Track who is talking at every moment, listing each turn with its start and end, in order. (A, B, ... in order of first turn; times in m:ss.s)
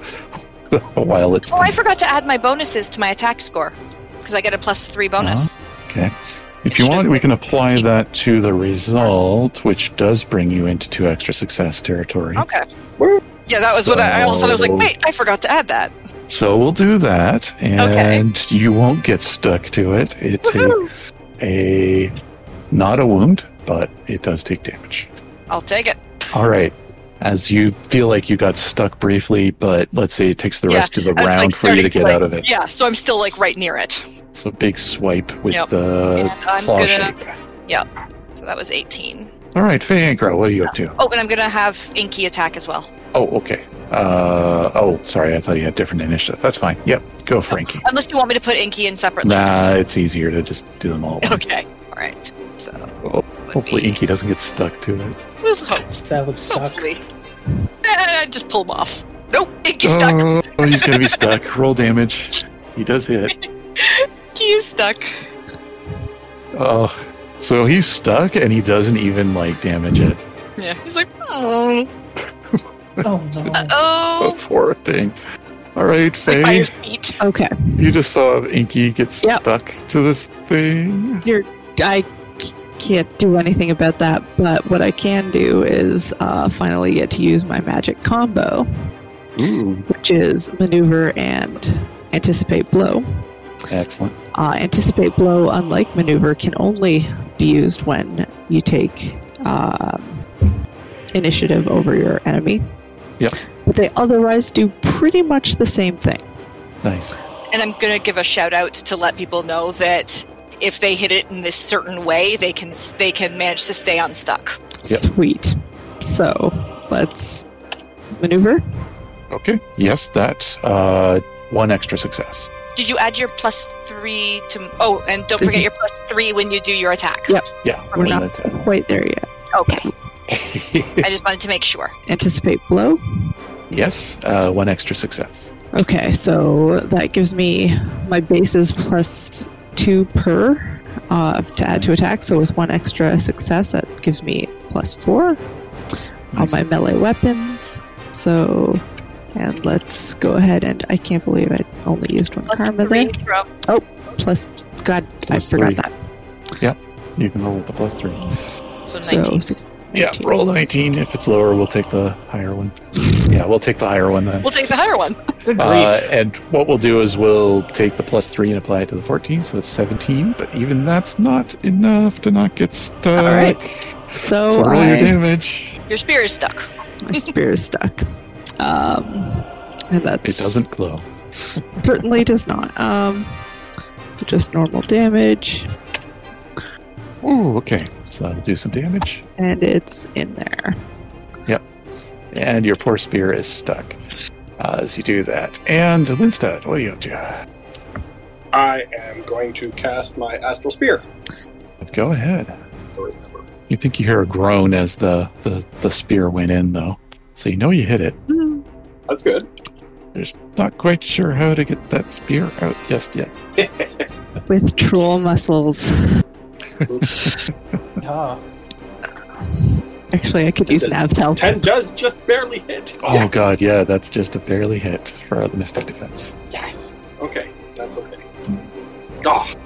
0:00.7-0:01.8 A
0:01.5-0:05.6 B
0:05.2-0:12.5 A
0:06.7-0:07.9 B
0:12.4-0:12.6 B
0:13.0-0:13.2 C
0:13.5-0:15.9 B
0:13.7-0:14.9 A
0:16.3-0:22.2 A
0:17.8-0:18.2 B
0:20.4-0:20.9 B
0:22.7-0:25.1 A
0:25.5-0:26.0 B
0:26.3-0:32.5 A
0:30.7-0:34.1 B
0:34.3-0:37.4 A
0:35.5-0:37.1 B
0:38.4-0:39.3 B
0:39.6-0:41.0 A
0:41.0-0:42.9 B
0:43.1-0:47.8 A
0:47.5-0:49.6 B
0:49.2-0:51.4 A
0:51.2-0:52.9 B
0:53.0-0:55.2 A
0:53.5-0:54.0 B
0:55.4-0:57.0 B
0:56.1-0:56.9 D
0:57.8-1:01.3 B
0:59.8-1:03.4 A
1:03.3-1:05.3 B
1:06.5-1:10.2 A
1:10.6-1:11.9 B
1:12.5-1:13.6 A
1:13.0-1:13.8 D
1:13.5-1:14.4 B
1:14.2-1:15.2 A
1:15.8-1:16.7 A
1:16.3-1:17.2 B
1:17.2-1:17.8 E
1:17.8-1:21.2 A
1:21.2-1:28.7 E
1:29.4-1:29.9 A
1:29.9-1:33.1 E
1:33.7-1:34.2 A
1:34.4-1:40.3 E
1:41.1-1:42.6 E
1:43.6-1:46.3 E
1:46.8-1:47.2 A
1:47.5-1:54.6 B
1:54.8-1:57.5 E
1:58.2-1:58.6 E
1:59.3-2:02.5 A
2:02.8-2:07.4 B
2:05.4-2:05.7 E
2:07.3-2:09.9 E
2:07.6-2:08.6 A
2:09.5-2:09.9 B
2:10.3-2:11.1 A
2:11.0-2:11.9 B
2:12.1-2:13.0 E
2:13.7-2:15.5 A
2:15.7-2:25.4 E
2:21.7-2:22.0 A
2:26.3-2:26.6 A
2:26.3-2:28.8 E
2:29.4-2:33.1 E
2:32.5-2:33.5 B
2:33.6-2:35.9 E
2:35.3-2:35.8 A
2:36.6-2:38.3 A
2:38.9-2:39.5 B
2:39.0-2:40.4 E
2:39.9-2:44.5 A
2:44.4-2:45.2 B
2:45.4-2:46.0 D
2:45.6-2:53.9 A
2:53.2-2:53.6 E
2:54.1-2:55.2 E
2:54.5-2:55.8 A
2:55.9-2:57.3 B
2:57.0-2:58.0 E
2:58.6-3:00.6 E
3:00.2-3:01.1 A
3:01.8-3:03.3 E
3:04.2-3:05.7 E
3:07.2-3:09.2 A
3:09.4-3:10.8 E
3:12.3-3:14.0 A
3:14.6-3:17.4 A
3:18.5-3:21.0 C
3:21.8-3:22.6 A
3:23.0-3:23.5 C
3:23.7-3:28.2 A
3:28.3-3:28.6 E
3:29.1-3:29.5 C
3:30.1-3:33.3 A
3:33.6-3:34.1 C
3:34.5-3:36.2 E
3:36.9-3:37.2 C
3:36.9-3:37.4 A
3:38.0-3:38.4 D
3:39.4-3:41.6 E
3:40.7-3:43.5 C
3:43.0-3:46.4 A
3:46.5-3:48.3 C
3:49.2-3:49.5 C